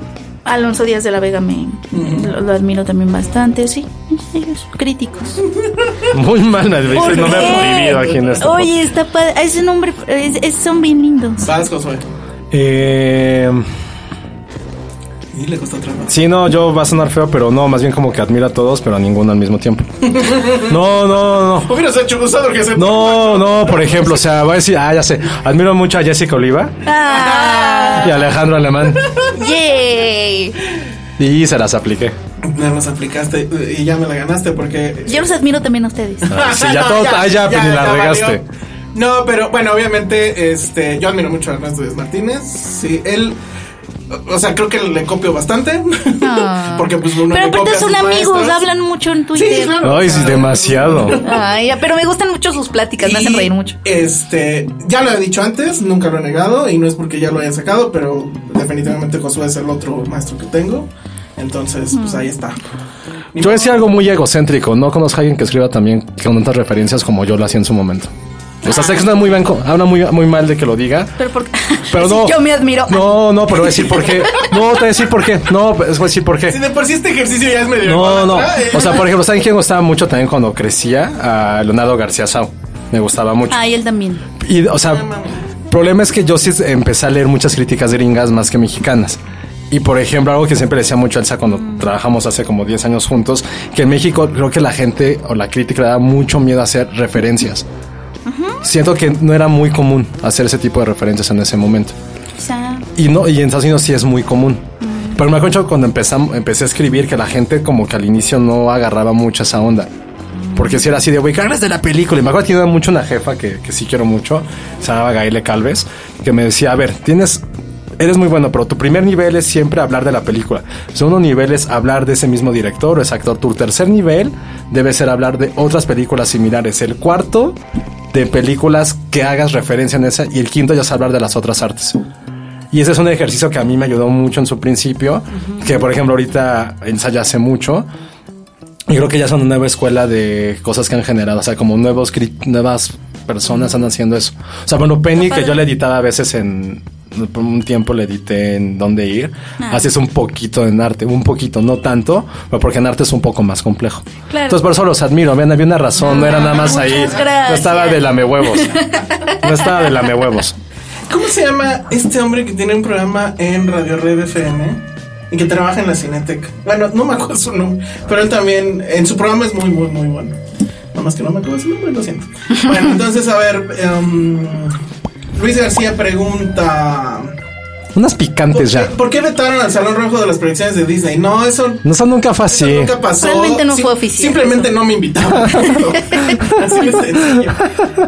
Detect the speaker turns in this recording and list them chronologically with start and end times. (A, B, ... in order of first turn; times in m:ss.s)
0:00.4-0:05.4 A
0:01.9-0:02.3 B
0:05.6-0:05.9 B
0:06.1-0:08.7 C
0:06.9-0:08.4 B
0:06.9-0:11.5 A
0:11.4-0:12.1 B
0:12.5-0:13.6 C
0:15.3-0:16.1 B
0:16.1-0:19.9 C
0:20.0-0:20.8 B
0:20.6-0:21.7 C
0:21.5-0:24.3 B
0:22.7-0:26.7 C
0:26.8-0:28.1 A
0:27.0-0:28.2 B
0:28.0-0:29.0 C
0:28.9-0:29.3 B
0:29.3-0:30.6 A
0:31.2-0:32.1 C
0:32.4-0:35.2 B
0:35.1-0:36.3 A
0:36.2-0:38.4 B
0:36.3-0:38.4 C
0:38.9-0:43.4 B
0:44.1-0:48.6 B
0:46.2-0:50.2 A
0:49.3-0:51.4 B
0:49.8-0:51.2 C
0:51.2-0:53.8 A
0:53.0-1:02.6 B
1:01.9-1:02.2 A
1:03.3-1:03.8 B
1:03.4-1:08.1 C
1:08.6-1:11.2 C
1:08.6-1:09.0 A
1:11.2-1:14.5 A
1:11.9-1:16.6 C
1:16.5-1:19.1 B
1:17.8-1:23.6 C
1:23.5-1:24.2 A
1:24.4-1:25.0 C
1:24.8-1:25.5 B
1:25.7-1:29.2 C
1:29.7-1:37.6 C
1:31.6-1:31.9 A
1:38.2-1:38.6 A
1:38.6-1:41.9 C
1:42.4-1:42.8 A
1:43.0-1:49.9 C
1:44.8-1:45.2 A
1:50.4-1:50.8 A
1:50.5-1:57.4 C
1:58.0-2:07.6 C
2:08.1-2:12.0 C
2:12.7-2:17.9 C
2:18.9-2:38.8 C
2:25.2-2:25.6 A
2:29.6-2:29.9 A
2:34.3-2:34.6 A
2:36.0-2:37.2 B
2:36.0-2:39.9 A
2:39.4-2:40.6 C
2:41.1-2:44.8 B
2:45.3-2:50.4 B
2:50.9-2:54.8 B
2:55.3-2:57.3 B
2:57.9-2:58.9 C
2:58.5-3:01.8 B
3:01.8-3:02.9 C
3:02.5-3:07.7 B
3:03.2-3:04.7 A